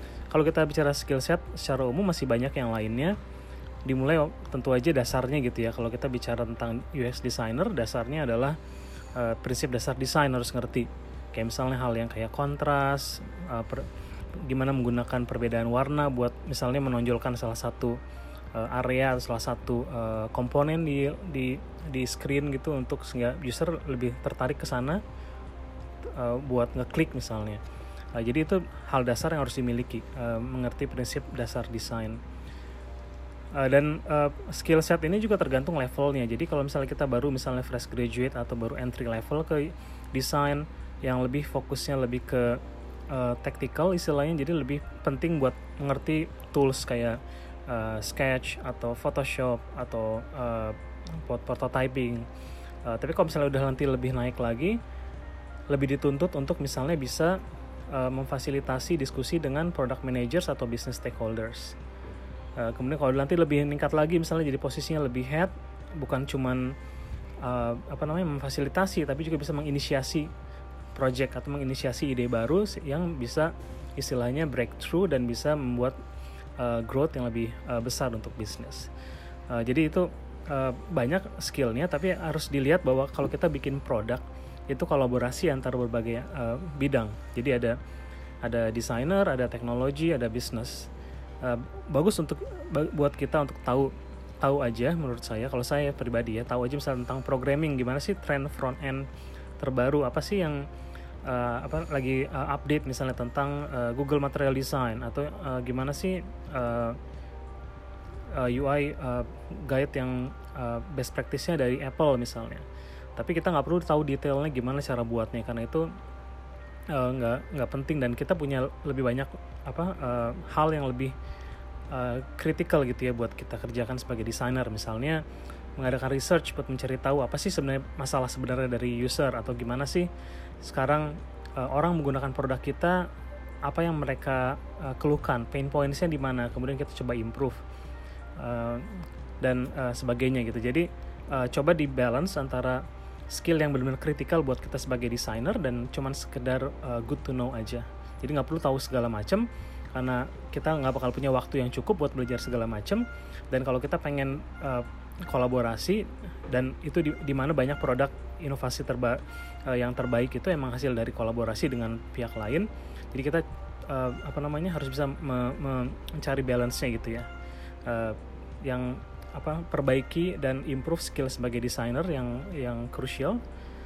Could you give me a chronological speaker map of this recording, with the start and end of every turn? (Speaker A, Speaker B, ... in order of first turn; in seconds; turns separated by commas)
Speaker A: 0.3-3.2, Speaker A: 3.8-8.6, Speaker A: 9.1-18.0, Speaker A: 18.5-25.0, Speaker A: 26.0-27.6, Speaker A: 28.1-32.2, Speaker A: 33.5-52.3, Speaker A: 52.8-54.8, Speaker A: 55.7-57.4, Speaker A: 57.9-61.8, Speaker A: 62.6-66.8, Speaker A: 67.4-70.3, Speaker A: 70.9-76.0, Speaker A: 76.6-78.9, Speaker A: 79.5-87.8, Speaker A: 88.4-90.9, Speaker A: 91.4-99.1, Speaker A: 99.6-100.6, Speaker A: 101.2-107.0, Speaker A: 108.3-115.9, Speaker A: 116.9-121.1, Speaker A: 121.9-125.2, Speaker A: 125.8-130.1, Speaker A: 130.6-133.1, Speaker A: 133.6-137.6, Speaker A: 138.4-167.3, Speaker A: 167.8-173.4